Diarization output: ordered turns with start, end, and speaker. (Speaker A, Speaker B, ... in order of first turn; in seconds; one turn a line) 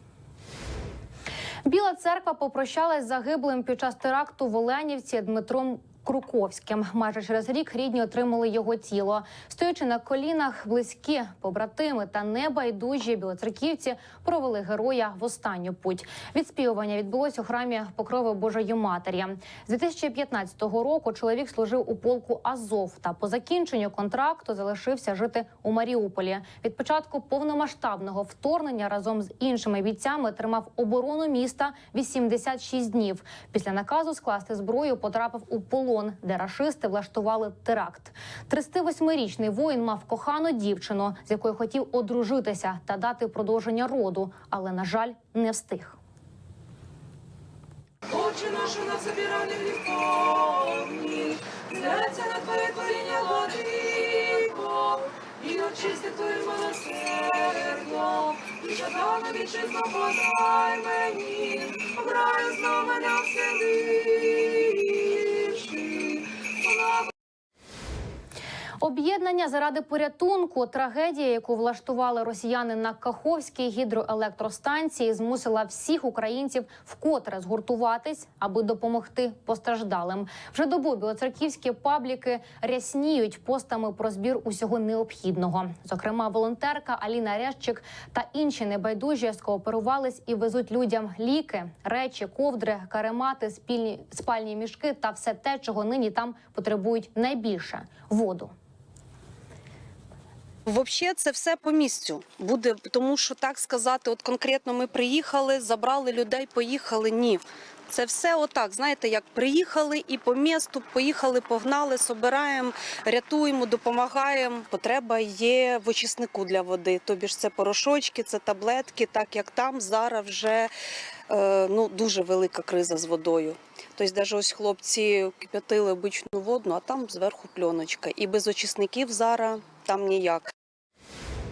Speaker A: 1.6-46.0
Speaker B: 48.1-50.8
Speaker B: 51.8-53.1
Speaker C: 52.8-53.7
Speaker B: 53.8-54.4
Speaker C: 55.5-58.0
Speaker C: 58.7-63.0
Speaker B: 59.8-60.5
Speaker B: 61.5-65.7
Speaker A: 68.8-98.5
Speaker C: 100.7-120.7
Speaker C: 121.3-130.5